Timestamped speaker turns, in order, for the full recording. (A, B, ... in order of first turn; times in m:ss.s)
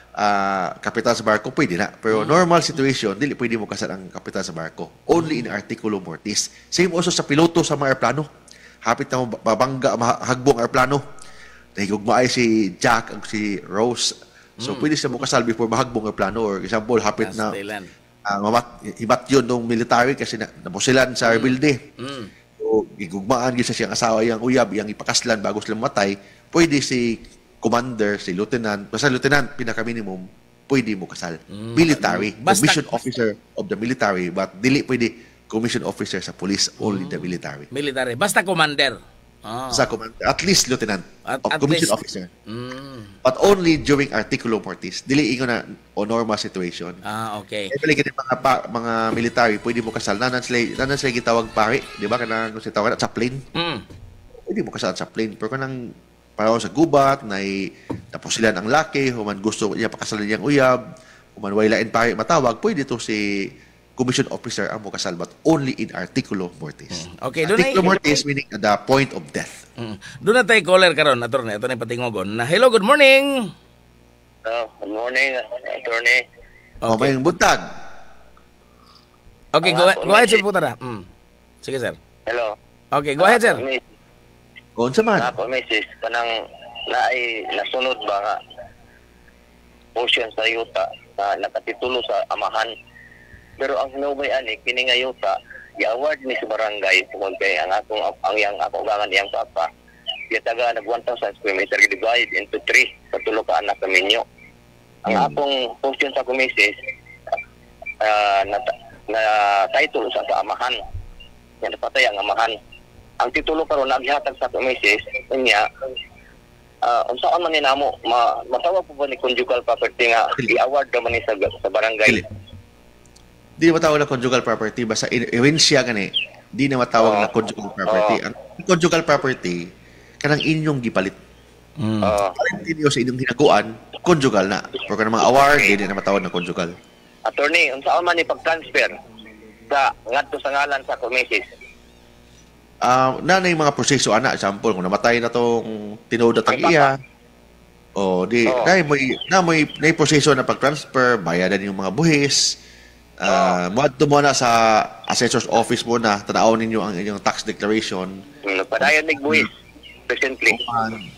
0:00.2-0:08.3 A
0:02.1-0:02.4 B
0:05.2-0:05.4 B
0:08.8-0:11.0 A
0:11.8-0:17.6 A
0:14.6-0:14.9 B
0:17.2-0:17.9 B
0:18.3-0:21.8 A
0:21.2-0:22.3 B
0:22.6-0:37.7 A
0:31.5-0:33.0 B
0:36.8-0:39.9 B
0:39.7-0:42.3 A
0:41.3-0:41.9 B
0:42.5-0:43.1 B
0:43.2-0:47.0 A
0:47.0-0:47.7 B
0:47.7-0:53.4 A
0:53.6-0:53.8 B
0:54.5-0:55.8 A
0:56.4-1:00.8 A
1:01.4-1:09.6 A
1:06.9-1:08.0 B
1:09.8-1:13.5 B
1:14.4-1:16.2 C
1:16.8-1:17.1 B
1:16.9-1:17.6 A
1:19.6-1:21.1 B
1:19.6-1:20.4 C
1:21.6-1:22.0 B
1:22.3-1:22.5 C
1:22.9-1:23.6 B
1:23.2-1:23.8 C
1:24.8-1:25.4 A
1:25.2-1:26.3 C
1:26.9-1:28.4 C
1:30.0-1:32.7 C
1:33.6-1:39.7 C
1:40.3-1:44.2 C
1:45.0-1:46.7 C
1:45.1-1:45.4 A
1:48.0-1:50.8 C
1:51.6-1:52.6 C
1:53.2-1:55.6 C
1:56.8-2:02.3 C
2:03.6-2:09.6 A
2:07.0-2:07.3 C
2:07.9-2:08.2 C
2:10.2-2:11.2 A
2:11.8-2:12.1 B
2:12.0-2:12.4 C
2:12.4-2:16.8 A
2:15.4-2:15.7 C
2:17.3-2:19.0 C
2:19.7-2:21.4 C
2:22.8-2:26.9 A
2:26.5-2:26.9 C
2:28.0-2:32.6 A
2:28.5-2:28.7 C
2:33.2-2:38.1 A
2:33.3-2:33.6 C
2:38.5-2:39.5 C
2:38.8-2:39.5 A
2:40.1-2:40.6 C
2:40.5-2:41.0 A